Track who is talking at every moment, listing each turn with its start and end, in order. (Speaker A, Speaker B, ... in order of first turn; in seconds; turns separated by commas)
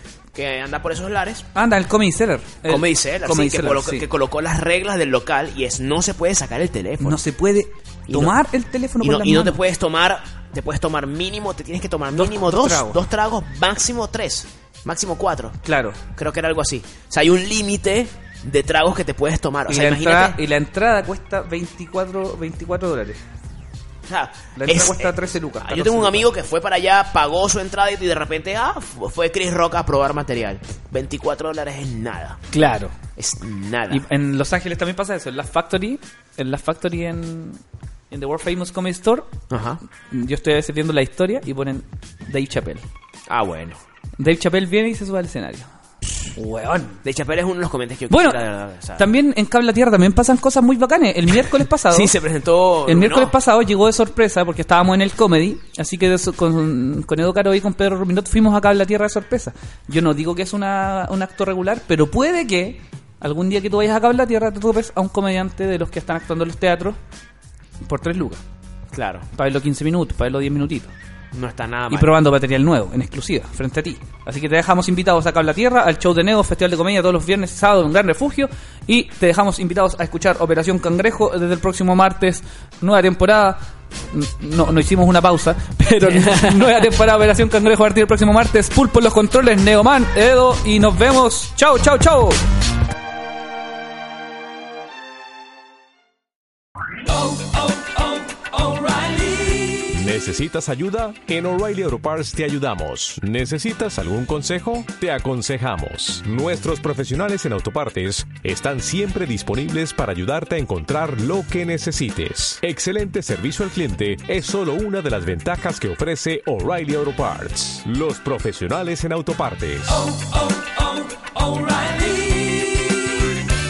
Speaker A: 0.3-1.4, Speaker B: 1.5-4.0, Speaker A: 2.6-7.2, Speaker B: 7.0-9.6, Speaker A: 8.1-8.3, Speaker A: 9.0-20.4, Speaker B: 12.1-13.0, Speaker B: 15.6-16.0, Speaker B: 19.7-23.2, Speaker A: 24.1-32.4, Speaker B: 24.5-26.3, Speaker B: 32.5-32.9, Speaker A: 33.1-34.0, Speaker B: 33.9-39.3, Speaker A: 39.5-39.8, Speaker B: 40.1-42.8, Speaker A: 43.3-43.8, Speaker B: 44.2-45.7, Speaker B: 46.3-47.0, Speaker A: 47.0-49.1, Speaker B: 48.1-48.4, Speaker B: 49.0-52.1, Speaker A: 51.9-53.3, Speaker B: 52.9-67.0, Speaker B: 67.8-68.4, Speaker A: 68.9-69.3, Speaker B: 69.3-70.9, Speaker A: 71.3-72.2, Speaker B: 71.9-92.4, Speaker A: 86.0-86.7, Speaker C: 97.0-99.9, Speaker D: 99.9-120.0, Speaker C: 119.9-123.1